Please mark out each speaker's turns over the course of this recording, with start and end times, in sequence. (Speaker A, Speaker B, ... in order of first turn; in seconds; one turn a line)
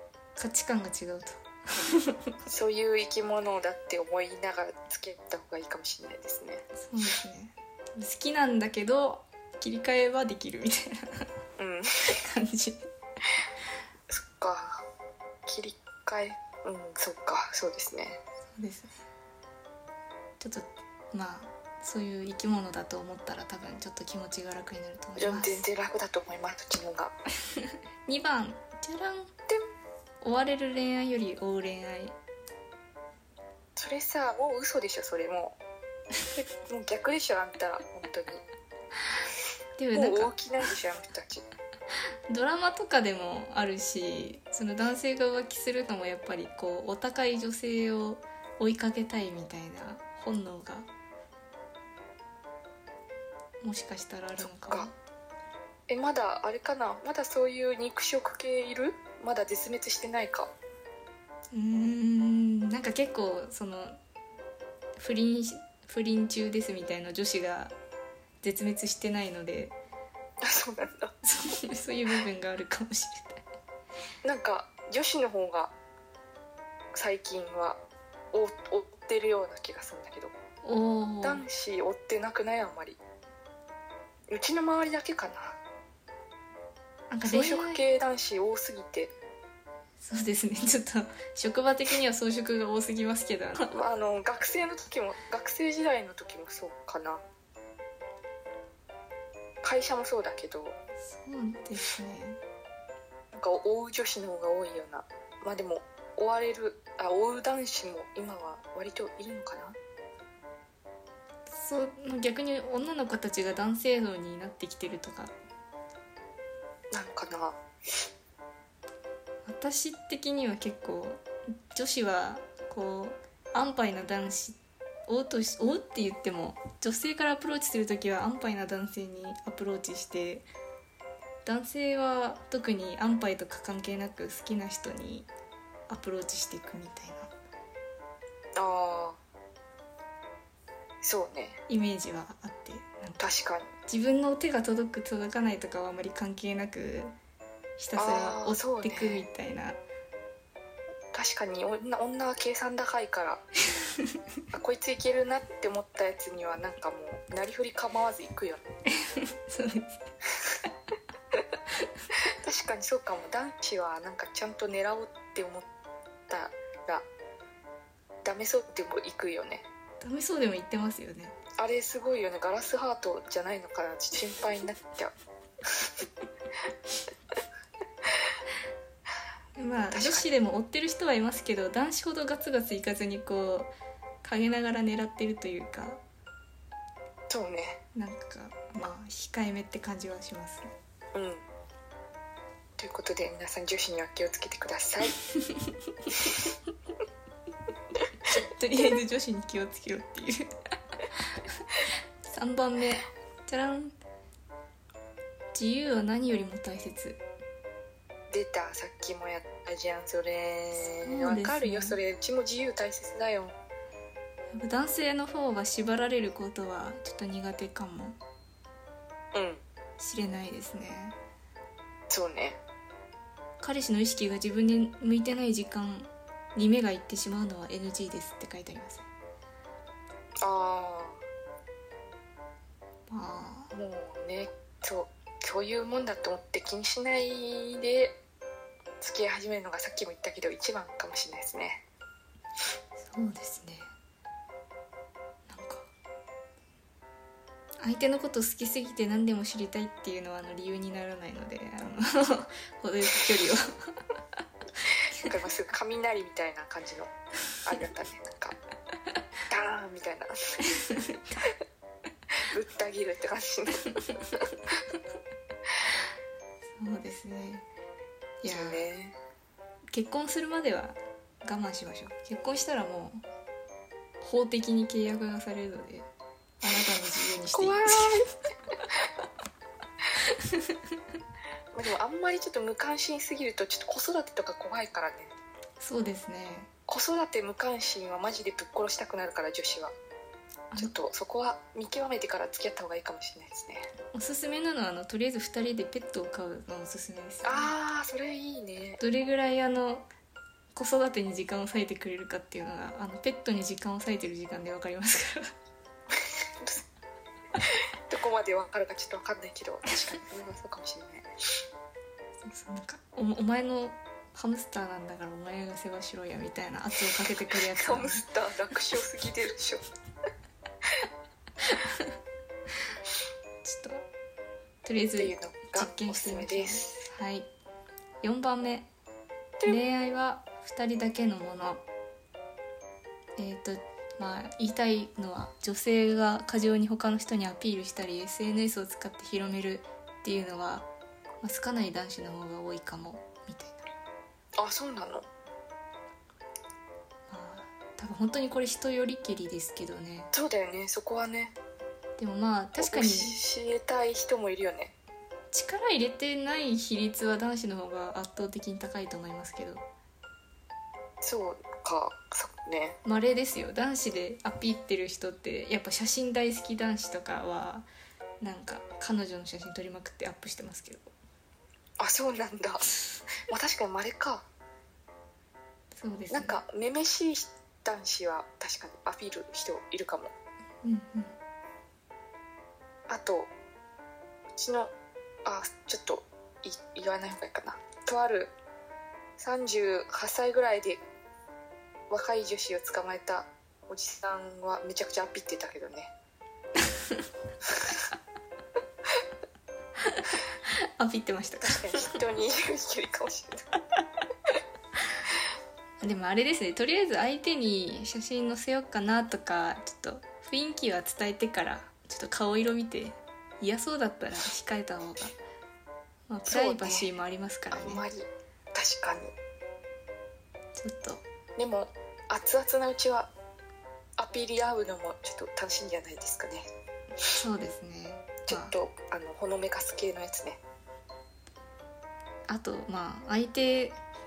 Speaker A: 0.4-2.4
Speaker B: 2.5-6.6
Speaker A: 6.8-11.3
Speaker B: 11.6-12.2
Speaker A: 12.1-12.9
Speaker B: 14.1-14.9
Speaker B: 15.4-18.2
Speaker A: 18.6-19.0
Speaker A: 20.4-25.6
Speaker B: 25.2-27.1
Speaker A: 28.1-29.3
Speaker A: 30.2-32.1
Speaker B: 33.8-35.6
Speaker B: 36.3-38.4
Speaker A: 39.8-40.3
Speaker B: 39.9-41.5
Speaker A: 42.3-50.9
Speaker A: 53.6-54.9
Speaker B: 54.4-54.9
Speaker B: 55.9-60.5
Speaker A: 61.5-64.0
Speaker A: 65.0-67.7
Speaker A: 68.4-69.8
Speaker B: 70.4-71.1
Speaker A: 71.2-73.4
Speaker B: 74.2-75.7
Speaker B: 77.0-80.3
Speaker A: 80.6-81.4
Speaker B: 81.2-83.0
Speaker B: 84.3-85.6
Speaker A: 87.1-87.8
Speaker B: 87.2-89.1
Speaker A: 90.0-93.7
Speaker B: 93.7-97.2
Speaker B: 99.6-100.8
Speaker A: 101.0-102.4
Speaker B: 103.3-109.8
Speaker A: 111.5-115.3
Speaker B: 116.9-117.6
Speaker A: 119.5-130.5
Speaker A: 131.4-135.3
Speaker A: 135.9-137.3
Speaker B: 138.6-139.2
Speaker B: 141.0-141.6
Speaker A: 141.7-143.3
Speaker B: 143.2-143.7
Speaker A: 143.8-147.2
Speaker A: 147.8-149.8
Speaker B: 148.0-149.2
Speaker B: 151.1-153.4
Speaker B: 154.5-158.7
Speaker A: 159.0-160.0
Speaker B: 162.4-165.7
Speaker B: 166.3-167.0
Speaker B: 168.2-169.7
Speaker A: 170.0-171.3
Speaker B: 171.6-176.0
Speaker A: 179.6-183.7
Speaker B: 179.9-180.3
Speaker A: 184.2-186.0
Speaker B: 187.3-187.8
Speaker A: 187.9-190.7
Speaker B: 191.1-191.4
Speaker B: 192.8-195.2
Speaker A: 198.3-200.5
Speaker A: 202.2-203.9
Speaker A: 205.5-207.2
Speaker B: 208.3-213.6
Speaker A: 211.0-212.0
Speaker A: 214.5-218.2
Speaker B: 219.3-219.6
Speaker A: 220.0-221.2
Speaker B: 222.1-222.6
Speaker A: 223.6-229.1
Speaker B: 230.4-231.2
Speaker A: 233.1-233.7
Speaker B: 233.7-238.2
Speaker B: 239.0-241.8
Speaker A: 243.0-243.9
Speaker A: 245.5-245.9
Speaker A: 247.8-254.0
Speaker B: 254.9-257.1
Speaker B: 257.6-258.5
Speaker B: 259.5-260.6
Speaker A: 260.9-261.2
Speaker B: 262.4-264.5
Speaker A: 266.8-267.6
Speaker A: 268.4-268.8
Speaker B: 268.5-269.1
Speaker A: 269.9-273.2
Speaker A: 274.2-276.1
Speaker A: 276.6-278.2
Speaker B: 277.5-278.3
Speaker A: 280.2-280.7
Speaker B: 281.7-285.3
Speaker A: 285.8-286.7
Speaker B: 286.9-289.9
Speaker B: 290.8-293.9
Speaker A: 294.1-297.7
Speaker B: 297.4-299.0
Speaker A: 299.0-300.1
Speaker A: 300.8-305.5
Speaker B: 306.1-306.8
Speaker B: 308.1-311.3
Speaker A: 312.4-318.2
Speaker B: 317.5-319.8
Speaker A: 321.7-322.0
Speaker A: 323.6-324.1
Speaker A: 324.9-327.5
Speaker B: 325.2-327.1
Speaker A: 328.2-328.9
Speaker A: 329.6-331.8
Speaker A: 333.4-340.9
Speaker A: 341.4-343.9
Speaker B: 344.6-345.3
Speaker A: 347.3-350.3
Speaker B: 350.3-351.6
Speaker A: 352.2-353.4
Speaker B: 352.8-354.9
Speaker A: 355.5-359.8
Speaker B: 361.2-363.0
Speaker A: 363.1-367.9
Speaker A: 368.4-371.1
Speaker B: 372.0-372.8
Speaker B: 373.5-374.5
Speaker A: 376.0-376.6
Speaker B: 376.3-380.3
Speaker A: 380.8-381.4
Speaker B: 383.1-383.5
Speaker B: 384.6-384.9
Speaker B: 385.4-388.5
Speaker B: 389.4-391.0
Speaker B: 392.1-396.1
Speaker B: 397.7-398.0
Speaker A: 400.1-402.2
Speaker B: 401.6-403.7
Speaker A: 406.0-415.3
Speaker A: 416.3-418.0
Speaker B: 416.5-417.1
Speaker B: 417.7-419.3
Speaker A: 420.8-421.2
Speaker B: 421.6-423.3
Speaker B: 424.2-426.6
Speaker A: 427.3-428.8
Speaker B: 428.5-430.6
Speaker A: 432.5-434.0